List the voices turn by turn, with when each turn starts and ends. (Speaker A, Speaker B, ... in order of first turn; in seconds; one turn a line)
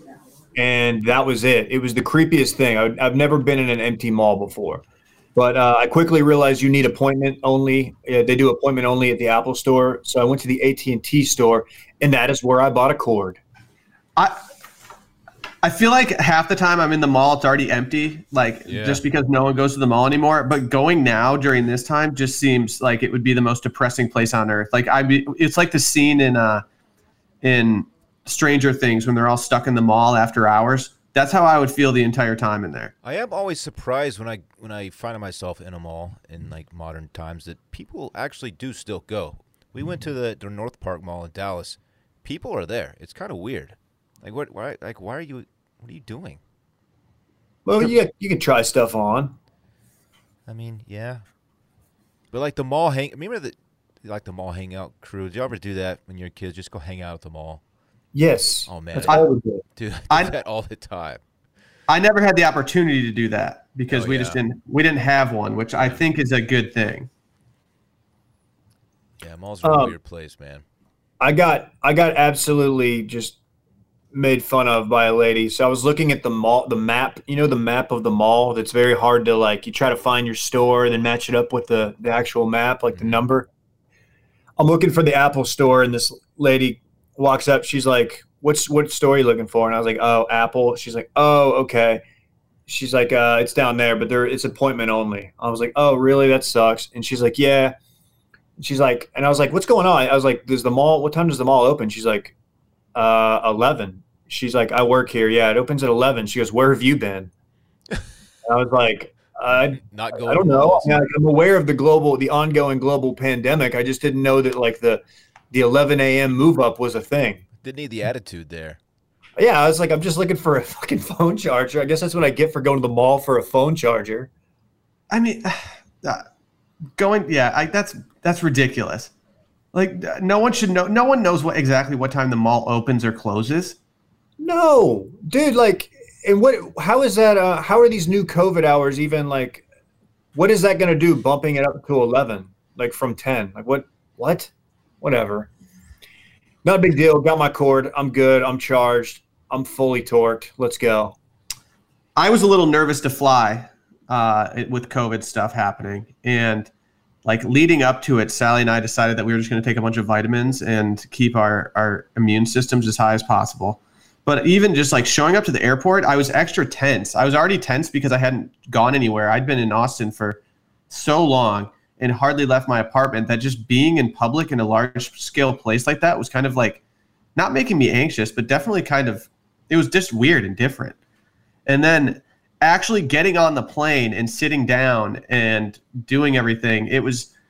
Speaker A: 0.6-4.8
Speaker A: 5.3-13.4
Speaker B: 15.6-26.6
Speaker C: 18.7-19.0
Speaker B: 27.4-32.9
Speaker C: 33.0-46.4
Speaker A: 47.6-49.3
Speaker C: 50.5-51.2
Speaker C: 52.3-57.6
Speaker A: 58.1-59.6
Speaker C: 58.7-59.2
Speaker C: 59.8-61.2
Speaker B: 61.9-67.1
Speaker C: 63.9-64.4
Speaker C: 65.8-66.0
Speaker C: 69.2-70.6
Speaker A: 69.6-69.9
Speaker A: 71.2-73.4
Speaker A: 74.1-83.5
Speaker C: 82.9-83.2
Speaker A: 84.6-92.0
Speaker A: 92.7-97.7
Speaker A: 98.6-102.3
Speaker A: 102.9-107.3
Speaker A: 108.4-117.4
Speaker C: 109.8-111.1
Speaker C: 117.6-118.8
Speaker A: 119.4-124.3
Speaker B: 125.1-126.2
Speaker B: 127.0-129.1
Speaker B: 129.7-133.8
Speaker A: 134.4-139.6
Speaker A: 140.3-145.5
Speaker A: 146.6-151.2
Speaker B: 152.2-156.7
Speaker B: 157.2-170.4
Speaker B: 170.9-176.8
Speaker B: 177.3-180.9
Speaker B: 181.7-187.3